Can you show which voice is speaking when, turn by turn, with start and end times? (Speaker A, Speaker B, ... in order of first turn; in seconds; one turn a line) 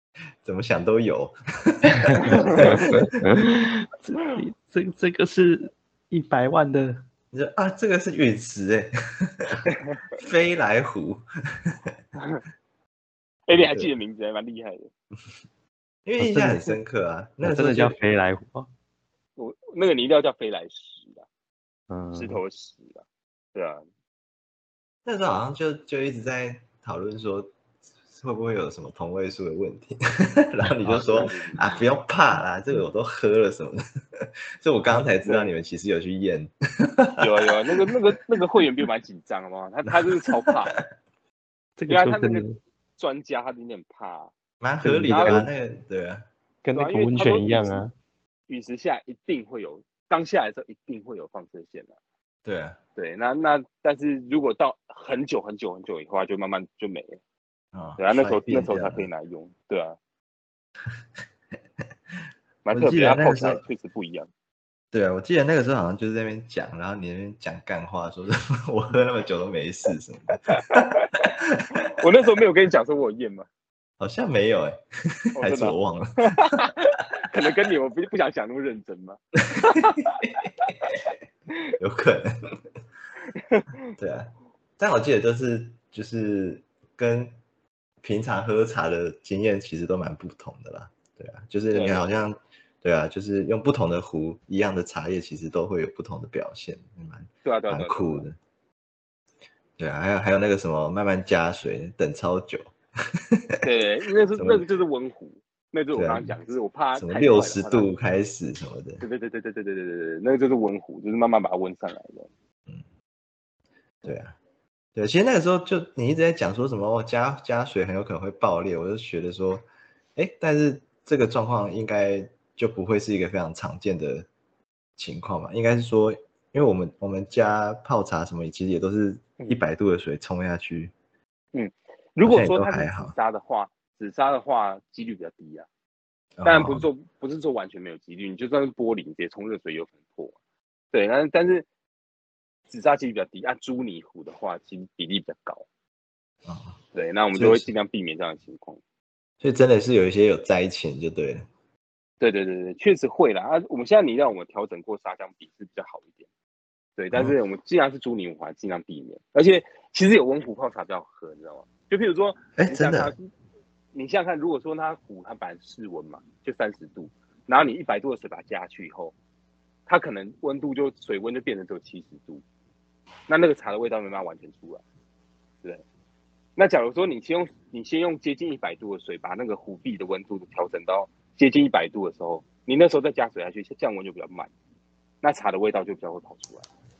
Speaker A: 0.4-3.1
Speaker B: 2.1-7.0
Speaker C: 2.2-2.9
Speaker A: 7.3-12.0
Speaker C: 9.7-10.0
Speaker C: 13.5-14.9
Speaker A: 13.5-13.9
Speaker A: 16.0-18.0
Speaker B: 16.2-16.8
Speaker B: 17.4-18.7
Speaker C: 19.4-21.2
Speaker B: 21.9-22.4
Speaker C: 22.1-23.8
Speaker A: 25.0-27.5
Speaker A: 28.1-37.9
Speaker C: 30.8-31.8
Speaker C: 35.2-35.5
Speaker C: 37.2-40.8
Speaker A: 40.3-40.5
Speaker B: 41.8-42.6
Speaker C: 41.9-42.4
Speaker C: 43.0-44.3
Speaker A: 44.6-46.2
Speaker B: 44.8-45.5
Speaker C: 45.0-45.4
Speaker B: 46.6-47.9
Speaker C: 46.8-47.8
Speaker C: 48.5-51.9
Speaker A: 52.4-52.8
Speaker C: 53.0-57.2
Speaker A: 57.7-59.1
Speaker C: 58.0-60.0
Speaker C: 62.6-64.3
Speaker A: 62.7-63.6
Speaker A: 64.9-71.9
Speaker C: 70.5-71.1
Speaker C: 71.8-73.5
Speaker A: 74.0-76.7
Speaker C: 75.3-80.7
Speaker A: 79.5-80.9
Speaker A: 81.8-82.3
Speaker C: 83.3-83.7
Speaker A: 84.0-87.3
Speaker A: 88.0-98.3
Speaker C: 91.7-92.0
Speaker C: 97.4-98.2
Speaker A: 99.8-103.7
Speaker C: 103.6-107.9
Speaker A: 104.3-104.6
Speaker A: 105.9-106.3
Speaker A: 106.9-109.0
Speaker C: 109.0-112.3
Speaker A: 114.0-114.4
Speaker A: 115.0-124.3
Speaker A: 125.0-130.9
Speaker C: 131.5-135.7
Speaker A: 132.2-133.1
Speaker A: 136.4-136.9
Speaker C: 136.4-140.3
Speaker C: 140.9-141.7
Speaker C: 142.7-145.6
Speaker A: 146.4-146.8
Speaker C: 146.9-148.8
Speaker A: 147.3-147.7
Speaker A: 149.4-151.5
Speaker C: 152.2-156.1
Speaker C: 157.0-163.3
Speaker A: 162.6-163.1
Speaker C: 163.9-169.1
Speaker C: 169.9-172.4
Speaker C: 173.3-174.8
Speaker C: 176.6-184.5
Speaker C: 185.2-186.7